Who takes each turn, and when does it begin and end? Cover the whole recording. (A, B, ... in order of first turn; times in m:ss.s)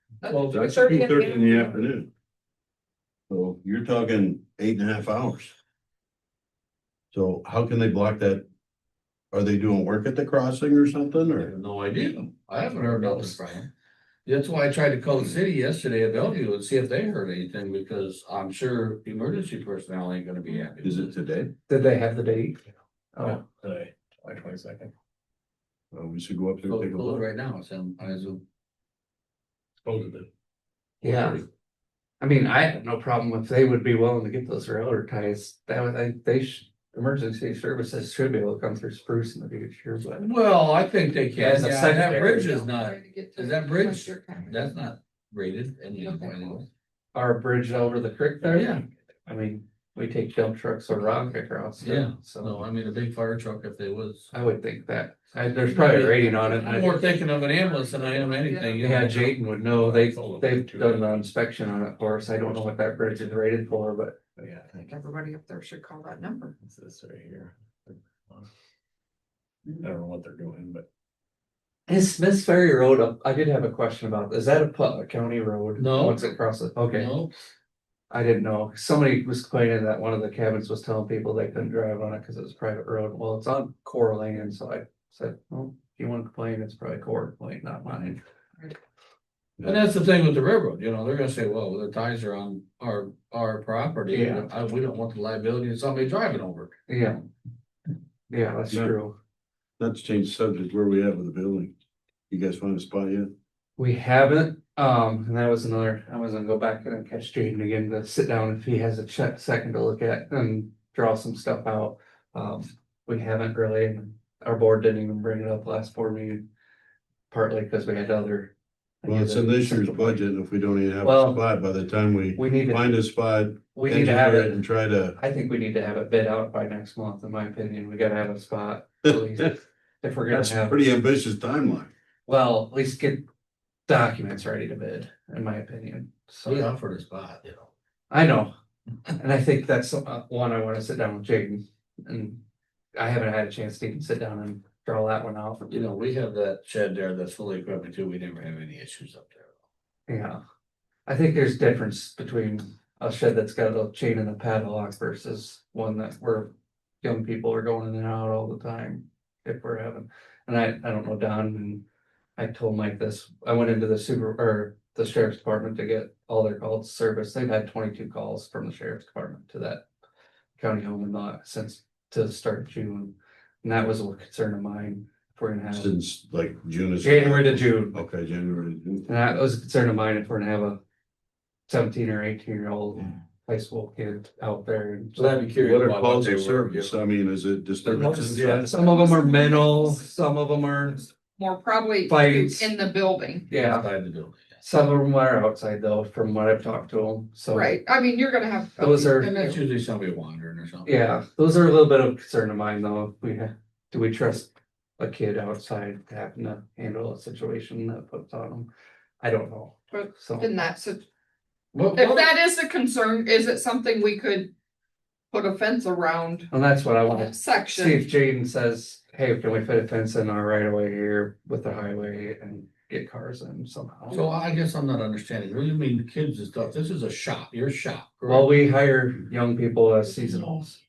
0:00.2-0:01.8 A
0:00.5-0:02.1 B
0:03.3-0:05.5 B
0:07.1-0:08.4 B
0:09.3-0:11.5 B
0:11.4-0:13.7 C
0:12.7-0:13.4 D
0:14.2-0:21.1 C
0:20.8-0:21.5 B
0:21.6-0:22.6 D
0:23.1-0:23.4 D
0:23.2-0:24.9 E
0:25.9-0:27.2 B
0:26.7-0:28.4 C
0:29.8-0:30.2 E
0:29.9-0:30.1 B
0:31.0-0:31.4 D
0:31.0-0:31.4 B
0:32.2-0:40.3 D
0:40.1-0:46.7 C
0:41.3-0:42.5 D
0:42.1-0:44.7 A
0:46.0-0:46.6 A
0:47.1-0:52.6 D
0:48.4-0:48.8 C
0:51.8-0:54.3 C
0:54.3-0:57.0 D
0:55.6-0:59.3 C
0:56.4-0:59.1 A
0:58.8-1:04.2 D
0:59.4-1:01.2 E
1:04.4-1:04.8 E
1:04.8-1:06.5 A
1:06.6-1:08.5 E
1:09.8-1:10.8 E
1:11.9-1:17.1 D
1:15.8-1:17.3 C
1:18.1-1:28.2 D
1:29.6-1:36.7 C
1:34.1-1:34.5 D
1:36.9-1:37.2 D
1:38.3-1:39.2 D
1:39.8-1:41.7 B
1:42.3-1:43.3 B
1:43.8-1:56.4 D
1:57.3-2:00.3 D
1:59.0-2:05.2 B
2:01.0-2:01.4 D
2:02.4-2:02.9 D
2:03.7-2:10.8 D
2:09.1-2:09.4 B
2:10.3-2:11.9 B
2:12.3-2:13.2 D
2:13.9-2:16.7 D
2:16.4-2:17.7 C
2:18.1-2:18.5 D
2:19.2-2:22.4 D
2:23.0-2:25.8 D
2:25.7-2:29.5 C
2:30.1-2:30.4 D
2:31.1-2:41.8 D
2:42.4-2:49.8 D
2:50.6-2:56.0 D
2:55.7-2:59.1 B
2:57.0-2:58.0 D
2:59.0-3:00.8 D
3:01.7-3:05.4 D
3:05.2-3:06.9 C
3:05.6-3:08.9 B
3:07.8-3:09.0 C
3:07.9-3:11.1 D
3:08.8-3:10.0 A
3:11.4-3:13.5 A
3:12.1-3:12.7 D
3:13.5-3:13.9 D
3:13.5-3:14.6 C
3:14.6-3:17.8 D
3:17.5-3:19.6 A
3:18.8-3:19.3 D
3:19.1-3:20.9 C
3:20.8-3:28.7 D
3:29.2-3:30.7 D
3:29.9-3:31.0 A
3:31.7-3:32.3 C
3:31.9-3:34.5 A
3:35.3-3:36.5 A
3:36.5-3:44.2 D
3:37.1-3:38.0 A
3:44.1-3:48.5 C
3:48.2-3:50.8 D